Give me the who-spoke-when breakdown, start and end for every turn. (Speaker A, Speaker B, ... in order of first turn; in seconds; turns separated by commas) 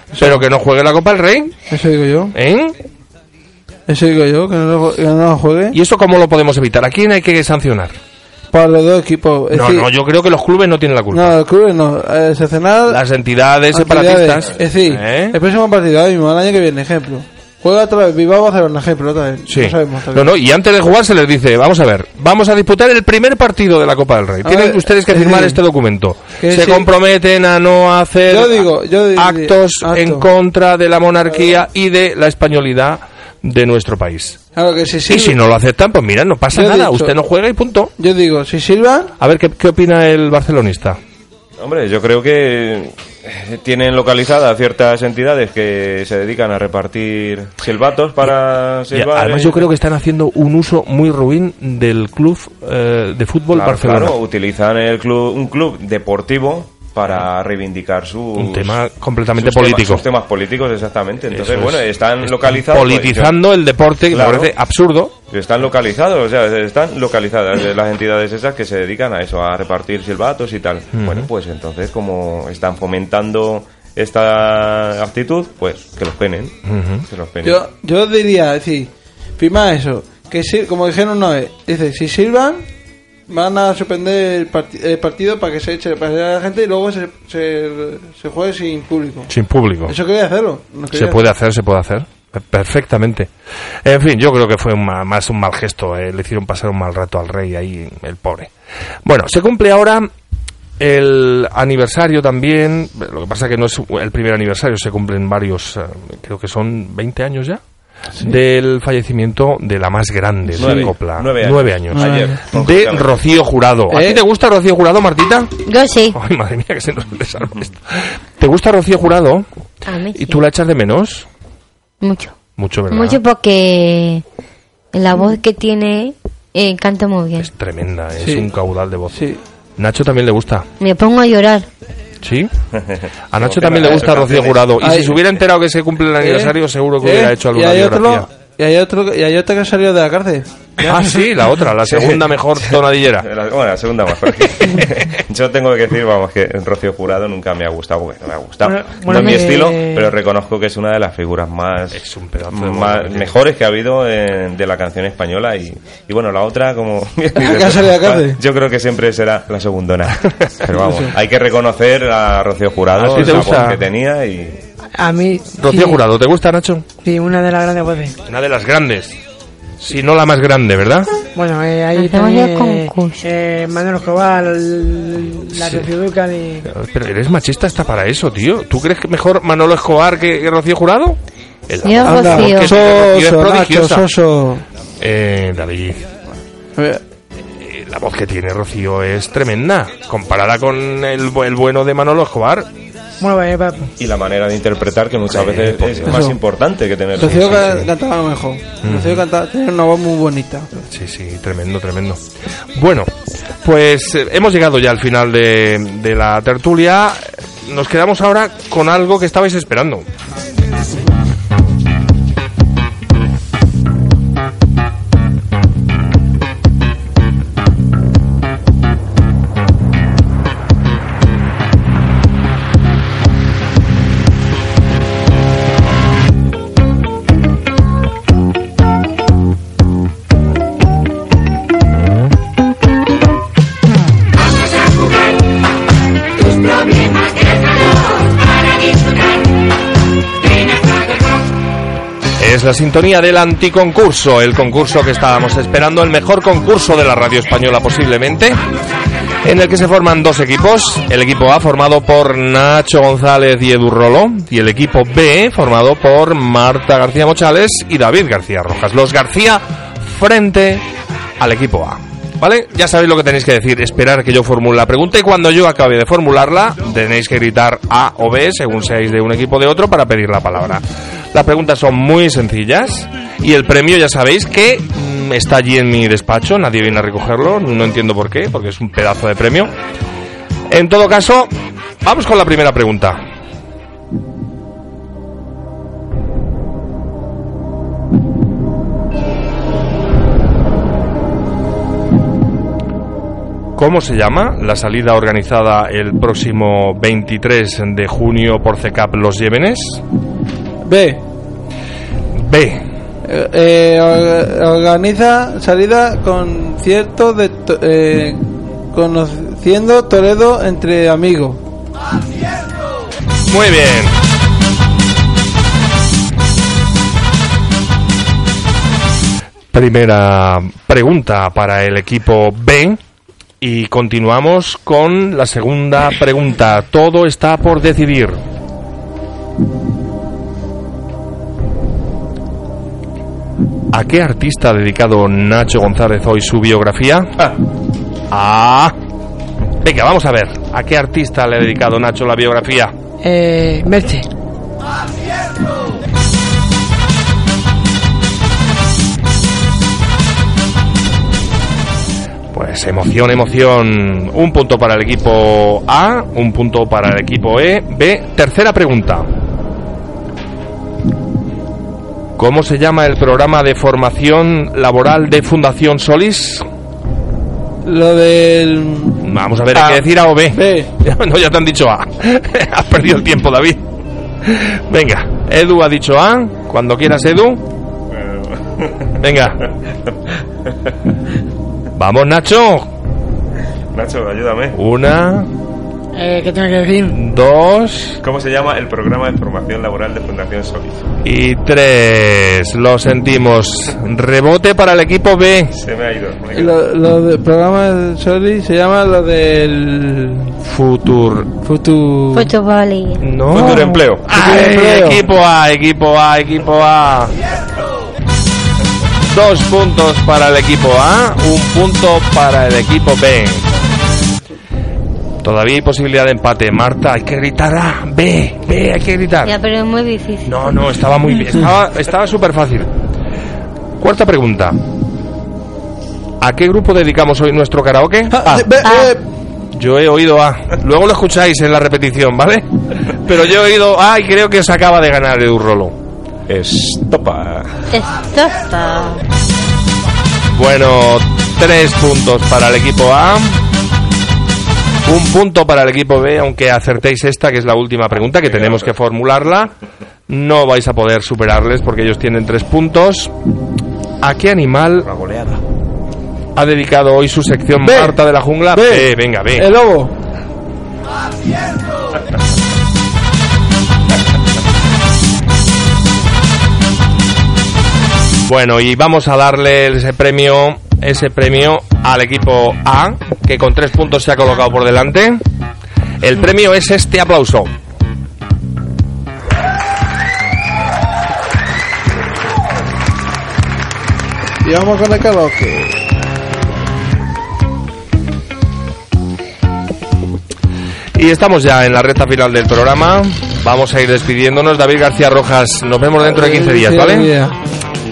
Speaker A: 0.1-0.4, Speaker B: 0.1-1.5, Speaker A: 1.7-2.3, Speaker B: 2.3-2.8, Speaker A: 3.9-5.8, Speaker B: 5.7-8.0, Speaker A: 8.5-9.9, Speaker B: 9.5-11.3, Speaker A: 11.1-13.0, Speaker B: 12.9-15.4, Speaker A: 13.7-20.3, Speaker B: 19.4-34.4, Speaker A: 24.4-25.6, Speaker A: 26.4-26.9, Speaker A: 28.3-30.3, Speaker A: 34.5-35.4, Speaker B: 35.1-37.9, Speaker A: 36.5-37.1, Speaker A: 38.0-39.1, Speaker B: 39.2-41.0, Speaker C: 41.6-49.6, Speaker B: 48.9-54.2, Speaker C: 53.5-58.8, Speaker B: 58.3-60.0, Speaker C: 59.4-63.4, Speaker B: 61.3-65.1, Speaker C: 64.1-64.5, Speaker C: 65.3-76.5, Speaker B: 70.9-71.3, Speaker B: 76.7-77.0, Speaker C: 77.1-77.6, Speaker A: 77.4-82.7, Speaker A: 83.3-89.3, Speaker B: 89.3-90.0, Speaker A: 89.9-91.2, Speaker B: 90.9-93.3, Speaker B: 93.8-98.5, Speaker B: 99.0-100.1, Speaker B: 100.8-107.6, Speaker B: 108.2-115.5, Speaker C: 110.5-113.1, Speaker A: 110.6-110.9, Speaker A: 111.9-112.4, Speaker A: 113.9-114.2, Speaker D: 115.7-116.2, Speaker B: 116.1-119.4, Speaker D: 119.8-120.4, Speaker B: 120.1-121.3, Speaker D: 122.0-122.4, Speaker B: 122.6-123.2, Speaker D: 122.9-124.2, Speaker D: 124.9-127.5, Speaker B: 127.4-130.7, Speaker A: 128.2-128.5, Speaker A: 129.1-129.4, Speaker D: 130.8-131.7, Speaker B: 132.2-132.5, Speaker C: 132.7-134.8, Speaker B: 133.3-138.3, Speaker A: 134.8-135.2, Speaker A: 136.2-140.5, Speaker B: 140.8-143.3, Speaker C: 141.9-164.6, Speaker E: 148.6-150.1, Speaker B: 151.9-153.4, Speaker A: 157.4-158.4, Speaker A: 160.8-161.1, Speaker B: 162.9-163.8, Speaker A: 163.2-163.5, Speaker E: 165.0-166.0, Speaker B: 165.6-166.8, Speaker E: 167.0-168.2, Speaker B: 168.2-169.2, Speaker B: 169.8-171.1, Speaker E: 171.3-176.7, Speaker D: 171.9-173.2, Speaker B: 175.5-175.9, Speaker B: 176.6-184.1, Speaker D: 181.8-182.8, Speaker A: 182.0-184.6, Speaker B: 185.0-186.1, Speaker A: 186.8-187.0, Speaker B: 187.6-192.7, Speaker E: 193.2-193.8, Speaker C: 194.0-197.9, Speaker B: 195.3-196.2, Speaker A: 196.1-196.4, Speaker A: 197.2-200.7, Speaker B: 197.2-197.9, Speaker B: 198.8-199.2, Speaker B: 200.8-202.2, Speaker B: 202.7-203.1, Speaker B: 203.6-210.1, Speaker B: 242.4-248.6, Speaker B: 249.4-260.8, Speaker B: 261.4-279.7, Speaker B: 280.7-281.5, Speaker B: 282.0-283.2, Speaker B: 293.8-300.0, Speaker A: 300.9-301.2, Speaker B: 302.3-302.9, Speaker A: 303.2-311.6, Speaker B: 313.5-314.2, Speaker B: 319.7-323.0, Speaker B: 323.6-328.4, Speaker B: 333.9-337.5, Speaker B: 338.3-338.9, Speaker B: 339.8-342.9, Speaker E: 343.2-344.2, Speaker B: 352.5-359.3, Speaker B: 362.4-366.6, Speaker A: 367.8-369.2, Speaker B: 369.2-373.9, Speaker A: 369.7-370.9, Speaker B: 374.4-377.6, Speaker C: 378.2-379.1, Speaker B: 379.2-379.6, Speaker B: 381.9-382.9, Speaker C: 383.9-384.8, Speaker B: 384.7-385.5, Speaker E: 386.1-387.2, Speaker B: 387.1-388.2, Speaker C: 388.2-391.1, Speaker B: 391.2-395.7, Speaker C: 395.7-396.7, Speaker A: 396.5-400.5, Speaker B: 400.6-401.5, Speaker A: 401.6-402.5, Speaker D: 402.3-403.2, Speaker B: 403.2-407.3, Speaker C: 403.5-404.3, Speaker A: 404.3-405.2, Speaker B: 409.3-413.7, Speaker B: 415.4-419.5, Speaker D: 419.4-420.8, Speaker B: 420.4-422.9, Speaker B: 424.0-424.8, Speaker B: 426.4-428.7, Speaker A: 428.3-429.2, Speaker D: 428.8-429.1, Speaker B: 429.7-435.9, Speaker C: 436.5-437.8, Speaker D: 437.9-439.2, Speaker B: 440.5-443.6, Speaker B: 445.0-449.7, Speaker B: 450.3-453.3, Speaker B: 454.2-455.1, Speaker C: 455.1-455.6, Speaker B: 456.6-459.7, Speaker A: 457.8-458.1, Speaker A: 458.7-460.1, Speaker B: 468.4-475.4, Speaker B: 476.2-477.7, Speaker A: 484.6-485.9, Speaker B: 491.1-497.3, Speaker A: 496.2-497.6